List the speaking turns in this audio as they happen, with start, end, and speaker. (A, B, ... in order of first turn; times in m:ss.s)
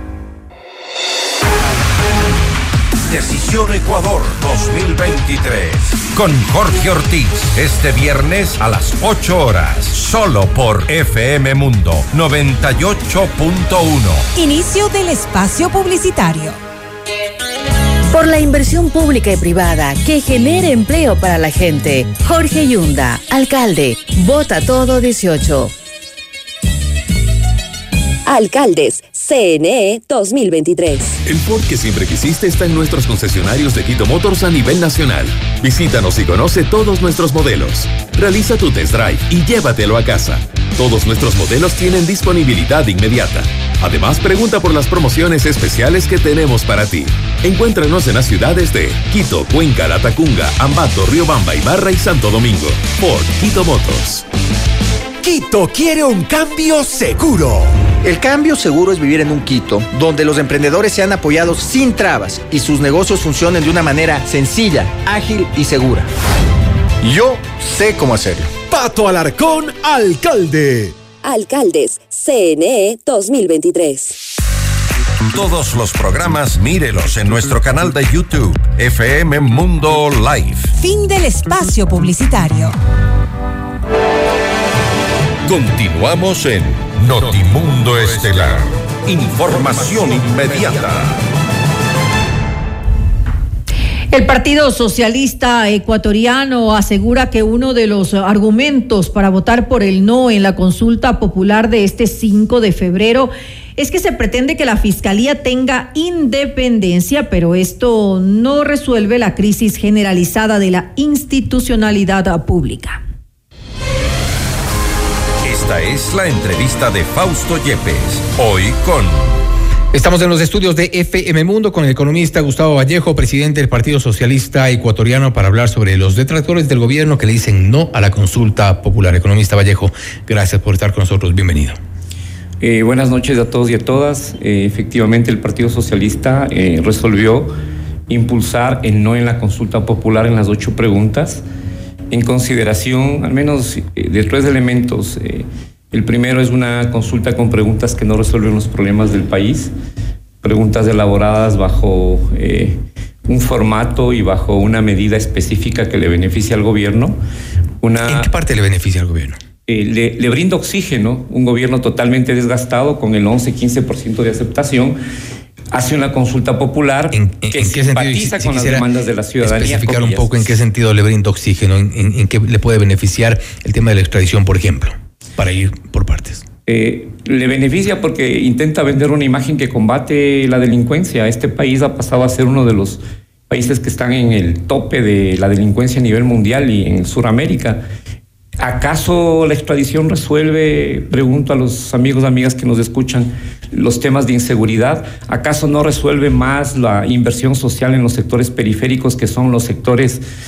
0:03.1-0:14.3 A
0:14.4-0:16.6 B
0:18.1-0:25.7 C
0:28.3-0:31.2 D
0:31.2-0:54.3 E
0:55.2-0:57.7 F
0:58.0-1:06.1 G
1:08.7-1:10.9 F
1:11.2-1:14.2 D
1:15.3-1:20.7 A
1:20.8-1:22.8 B
1:25.5-1:31.2 A
1:34.1-1:53.0 H
1:55.4-1:59.4 A
1:59.9-2:11.8 I
2:12.6-2:17.5 J
2:18.1-2:21.4 J
2:22.1-2:29.7 J
2:30.4-2:37.2 J
2:37.8-2:38.3 J
2:38.0-2:39.4 I
2:39.7-2:45.0 J
2:45.7-2:50.5 J
2:47.1-2:48.8 I
2:49.4-2:56.5 I
2:56.7-3:07.8 J
3:08.6-3:20.2 J